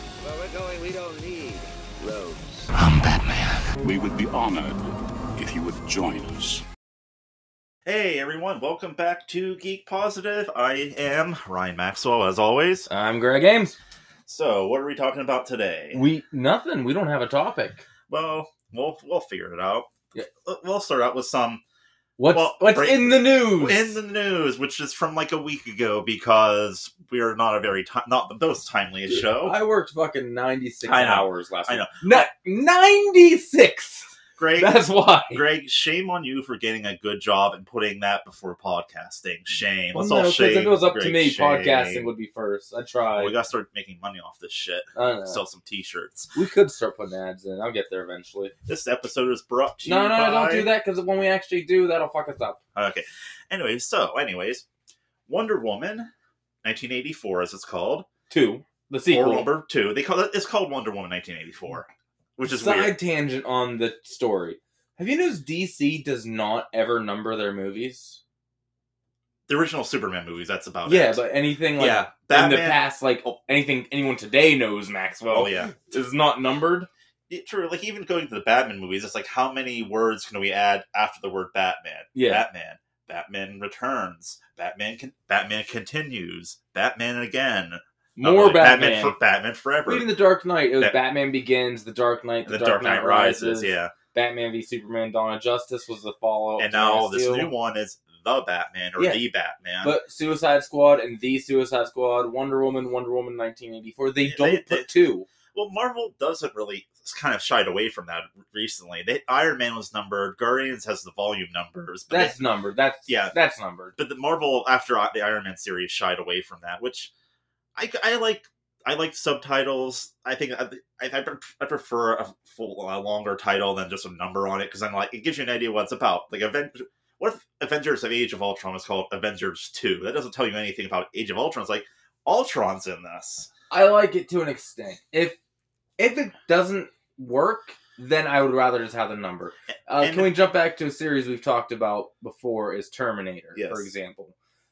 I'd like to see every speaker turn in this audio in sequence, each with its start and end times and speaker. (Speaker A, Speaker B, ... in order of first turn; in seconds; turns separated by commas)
Speaker A: 0.2-2.7, Speaker B: 2.8-4.8, Speaker B: 5.4-6.6, Speaker C: 7.8-12.9, Speaker D: 12.9-13.8, Speaker C: 14.3-16.0, Speaker D: 15.9-17.8, Speaker C: 18.1-19.9, Speaker C: 20.4-21.6, Speaker D: 22.2-24.0, Speaker C: 22.3-29.6, Speaker D: 29.1-35.4, Speaker C: 30.8-32.2, Speaker C: 34.4-42.1, Speaker D: 39.9-43.3, Speaker C: 43.2-46.3, Speaker D: 45.0-45.4, Speaker D: 46.3-48.5, Speaker C: 48.7-50.7, Speaker D: 49.8-52.6, Speaker C: 52.8-54.6, Speaker C: 55.3-56.1, Speaker C: 56.6-58.1, Speaker D: 58.3-59.5, Speaker C: 59.1-63.0, Speaker D: 62.4-68.2, Speaker C: 69.5-71.2, Speaker D: 70.9-76.9, Speaker C: 71.8-72.8, Speaker C: 75.3-75.7, Speaker C: 77.3-90.1, Speaker D: 82.1-82.5, Speaker D: 88.2-89.2, Speaker D: 89.9-97.5, Speaker C: 92.5-93.9, Speaker C: 96.6-100.0, Speaker D: 99.8-105.2, Speaker C: 104.2-104.9, Speaker C: 105.5-112.4, Speaker D: 112.1-114.0, Speaker C: 113.1-113.3, Speaker C: 114.0-117.1, Speaker C: 117.8-133.5, Speaker D: 133.7-135.4, Speaker D: 136.0-144.3, Speaker C: 139.9-140.3, Speaker C: 143.6-143.9